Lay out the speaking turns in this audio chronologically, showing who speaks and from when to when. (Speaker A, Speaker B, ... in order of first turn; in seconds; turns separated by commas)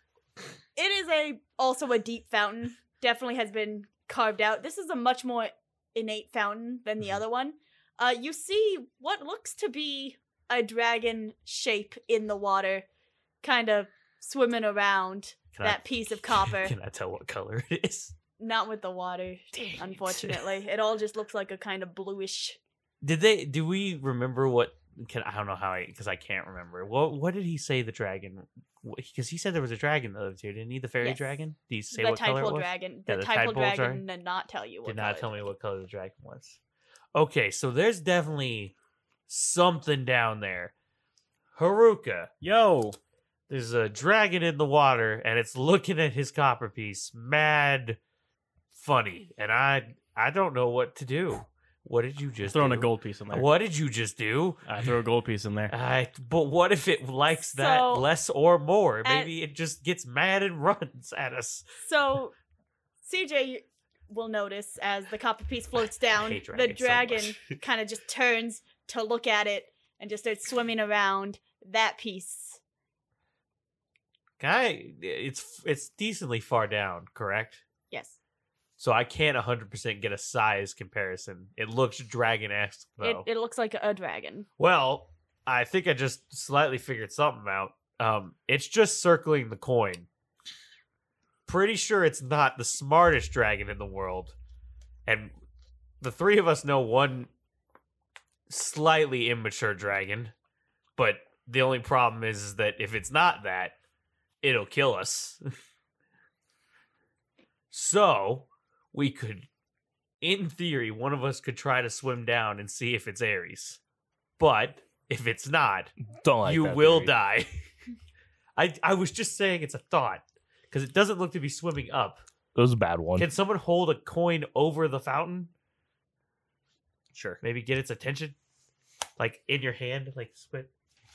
Speaker A: 0.8-12.8, Speaker A: 13.4-16.7, Speaker B: 15.5-18.1, Speaker A: 18.4-22.6, Speaker B: 19.5-20.4, Speaker B: 23.0-34.0, Speaker A: 31.9-35.3, Speaker B: 34.8-36.6, Speaker B: 37.1-38.8, Speaker B: 39.3-40.7, Speaker B: 41.5-42.3, Speaker C: 42.4-43.0, Speaker B: 43.5-48.0, Speaker B: 48.7-54.8, Speaker C: 52.5-53.5, Speaker C: 54.7-55.7, Speaker B: 55.7-61.6, Speaker A: 57.5-58.0, Speaker A: 59.0-59.3, Speaker A: 61.8-62.3, Speaker A: 63.0-72.6, Speaker B: 66.1-67.6, Speaker B: 74.4-77.6, Speaker A: 77.9-78.2, Speaker B: 78.8-83.3, Speaker A: 83.0-84.5, Speaker B: 84.6-90.1, Speaker B: 91.5-94.3, Speaker B: 95.0-95.3, Speaker B: 96.0-97.3, Speaker B: 98.5-100.3, Speaker B: 101.0-103.7, Speaker B: 104.4-105.4, Speaker B: 107.7-109.5, Speaker B: 110.2-113.8, Speaker B: 114.4-115.9, Speaker D: 116.0-117.1, Speaker B: 116.4-117.5, Speaker B: 118.5-122.2, Speaker D: 122.5-123.3, Speaker B: 123.2-125.5, Speaker D: 127.1-127.4, Speaker B: 127.4-128.4, Speaker B: 129.2-130.7